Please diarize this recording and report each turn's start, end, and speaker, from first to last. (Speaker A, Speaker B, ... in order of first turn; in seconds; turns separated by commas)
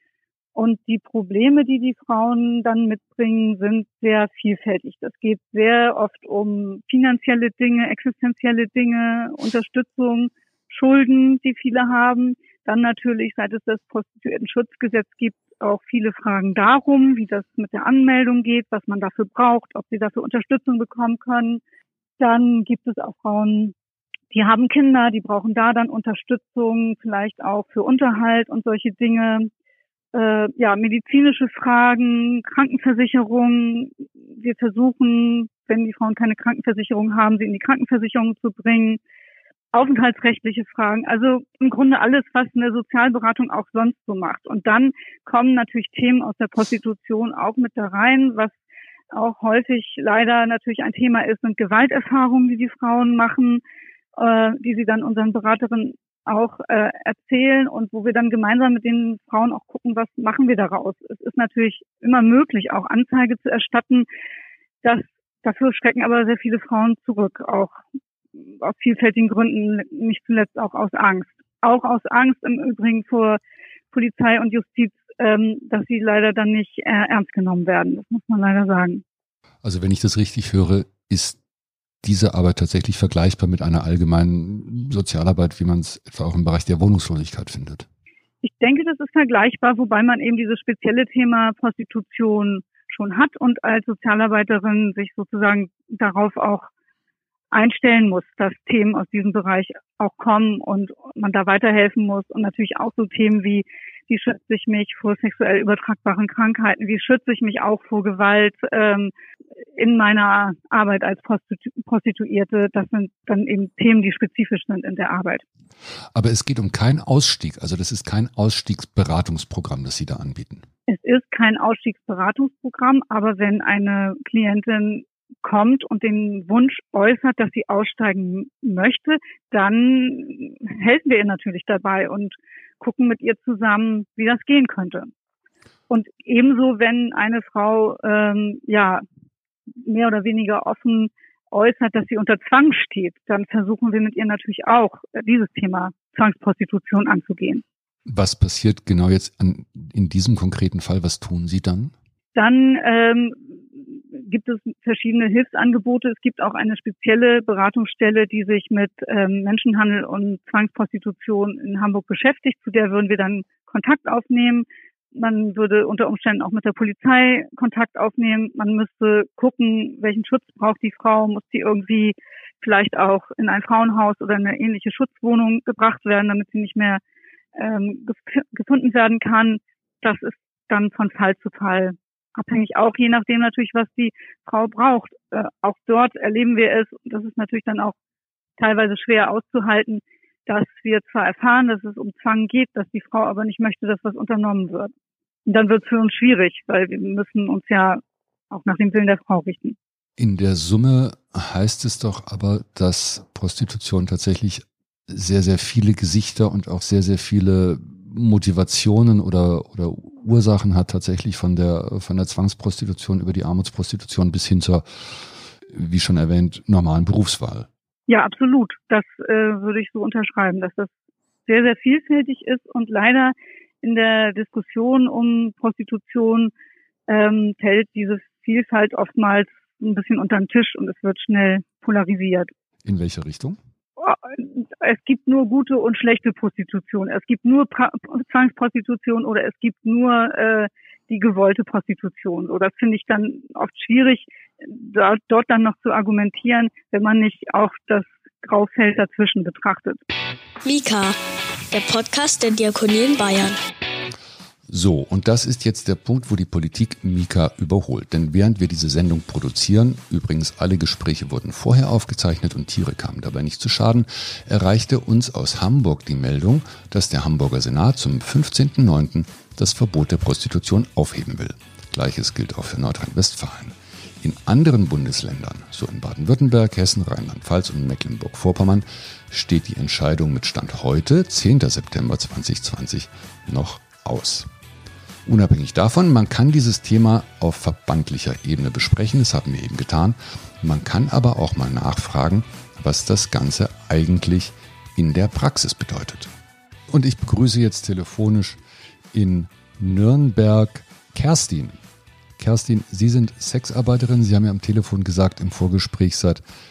Speaker A: 0.5-21.6, Speaker A: 22.2-23.7, Speaker A: 24.3-29.5, Speaker A: 30.1-39.0, Speaker A: 39.7-48.5, Speaker A: 49.1-53.6, Speaker A: 54.1-64.1, Speaker A: 64.8-67.7, Speaker A: 68.6-73.4, Speaker A: 73.9-79.0, Speaker B: 79.6-81.4, Speaker B: 82.0-87.9, Speaker A: 88.4-96.7, Speaker A: 97.5-109.1, Speaker A: 109.8-115.4, Speaker B: 116.1-120.6, Speaker A: 120.9-135.1, Speaker A: 135.9-139.0, Speaker A: 139.8-147.6, Speaker B: 148.1-151.9, Speaker A: 152.3-177.0, Speaker A: 177.5-187.9, Speaker A: 188.6-194.9, Speaker A: 195.5-199.8, Speaker B: 200.2-217.7, Speaker A: 218.1-220.9, Speaker A: 221.4-226.5, Speaker A: 227.1-232.5, Speaker B: 232.8-233.6, Speaker A: 234.0-250.0, Speaker C: 250.6-251.2, Speaker C: 251.7-253.6, Speaker B: 254.7-284.5, Speaker B: 285.2-296.3, Speaker B: 296.9-298.6, Speaker B: 299.1-301.8, Speaker B: 302.4-306.4